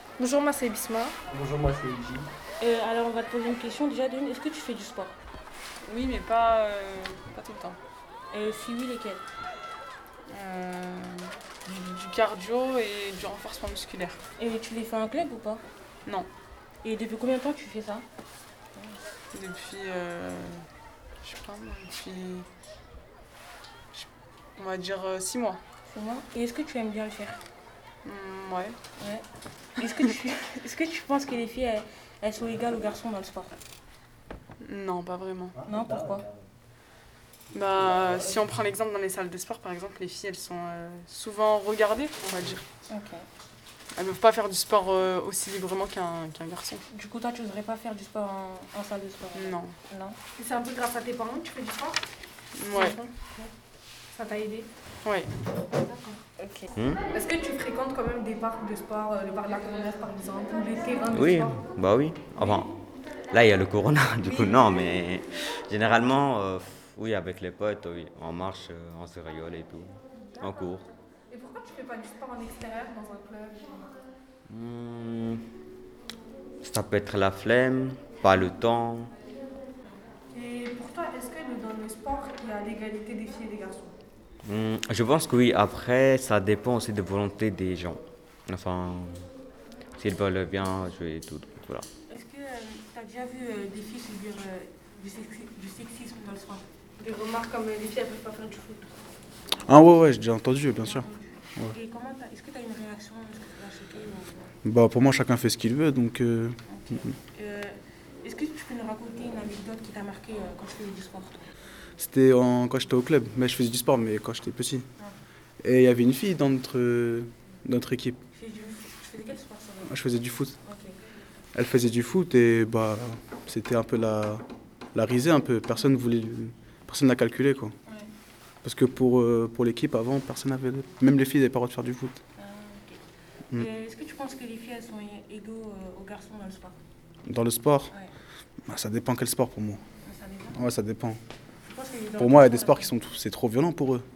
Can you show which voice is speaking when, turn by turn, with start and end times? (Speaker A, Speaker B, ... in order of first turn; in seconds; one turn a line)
Speaker A: 0.2-1.2
Speaker B: 1.3-2.3
Speaker C: 2.6-5.2
Speaker D: 5.8-7.8
Speaker C: 8.3-9.2
Speaker D: 10.3-14.2
Speaker C: 14.4-15.6
Speaker C: 16.8-18.1
Speaker C: 18.8-19.0
Speaker D: 19.3-20.7
Speaker D: 21.2-22.5
Speaker D: 23.9-25.6
Speaker C: 25.9-27.4
Speaker D: 28.1-28.8
Speaker C: 29.0-33.6
Speaker D: 34.6-35.6
Speaker C: 35.6-36.3
Speaker D: 37.5-42.7
Speaker C: 42.9-43.3
Speaker D: 44.0-46.8
Speaker C: 46.9-50.2
Speaker D: 49.3-49.8
Speaker A: 50.4-52.0
Speaker D: 52.6-53.0
Speaker A: 52.7-53.3
Speaker A: 54.1-54.7
Speaker D: 55.0-55.3
Speaker C: 56.2-56.7
Speaker E: 56.8-57.0
Speaker A: 57.1-61.6
Speaker E: 61.1-62.7
Speaker E: 63.3-70.9
Speaker A: 64.2-64.9
Speaker A: 71.3-74.0
Speaker E: 74.5-75.4
Speaker E: 76.6-79.1
Speaker A: 80.3-83.9
Speaker E: 84.4-89.3
Speaker E: 90.0-91.9
Speaker C: 92.1-96.6
Speaker A: 97.0-98.9
Speaker B: 99.7-101.7
Speaker C: 100.8-104.5
Speaker B: 104.6-107.1
Speaker C: 106.7-111.5
Speaker B: 112.0-114.9
Speaker B: 115.6-118.2
Speaker C: 118.3-120.0
Speaker B: 119.8-120.6
Speaker C: 120.7-121.0
Speaker B: 121.5-127.8
Speaker B: 128.6-132.2
Speaker C: 132.4-136.8
Speaker B: 137.3-137.9
Speaker B: 138.7-139.8
Speaker C: 140.1-140.6
Speaker B: 140.5-141.2
Speaker C: 141.7-143.0
Speaker B: 142.2-144.1